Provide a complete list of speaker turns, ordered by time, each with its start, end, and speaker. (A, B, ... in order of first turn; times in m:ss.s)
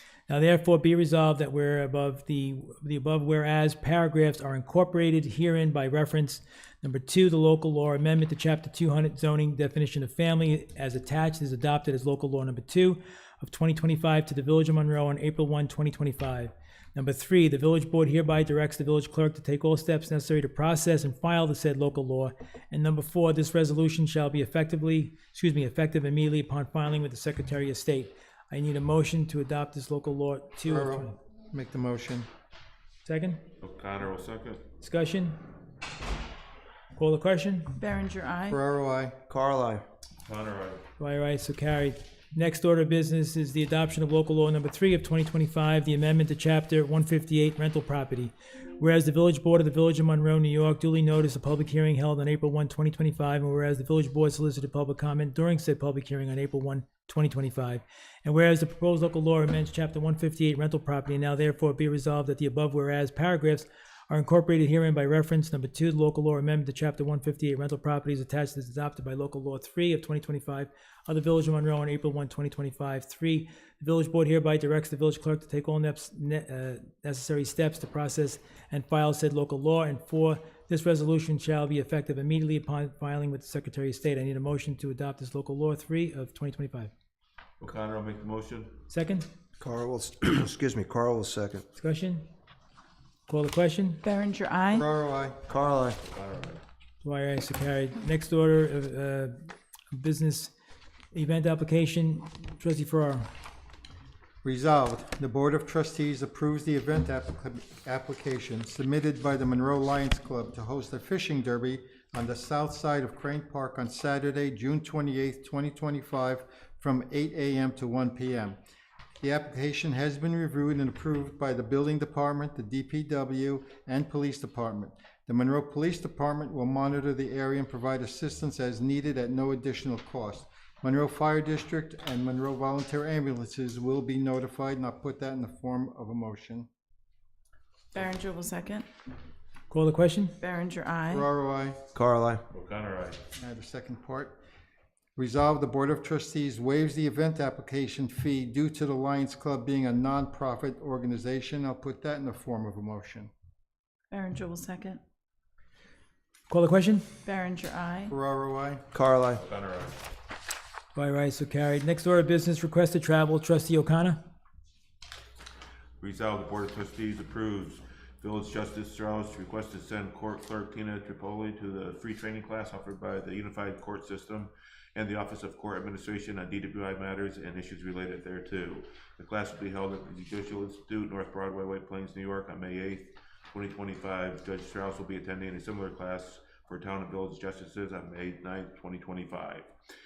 0:00.3-0:31.2 A
0:30.7-0:32.3 B
0:33.0-0:33.4 A
0:33.6-0:34.6 C
0:34.8-0:35.4 A
0:37.0-0:37.8 A
0:37.8-0:38.6 D
0:38.5-0:39.2 B
0:39.3-0:39.8 E
0:40.3-0:40.8 C
0:41.0-1:26.9 A
1:27.6-1:28.8 C
1:28.9-1:29.3 A
1:29.6-1:31.6 E
1:31.8-1:32.3 A
1:33.3-1:34.0 A
1:34.0-1:34.9 D
1:34.7-1:35.4 B
1:35.5-1:36.0 E
1:36.0-1:36.6 C
1:37.0-1:40.5 A
1:41.1-1:43.3 A
1:44.4-1:58.6 B
1:59.2-2:16.7 B
2:17.9-2:18.9 D
2:19.7-2:20.4 A
2:20.4-2:21.3 D
2:21.1-2:21.8 B
2:21.9-2:22.4 E
2:22.5-2:23.2 C
2:23.4-2:24.4 B
2:25.2-2:33.3 B
2:34.1-2:35.0 D
2:36.5-2:37.1 A
2:37.2-2:38.1 D
2:38.1-2:38.8 B
2:38.9-2:39.4 E
2:39.4-2:40.0 C
2:41.0-2:44.2 A
2:46.0-3:09.7 C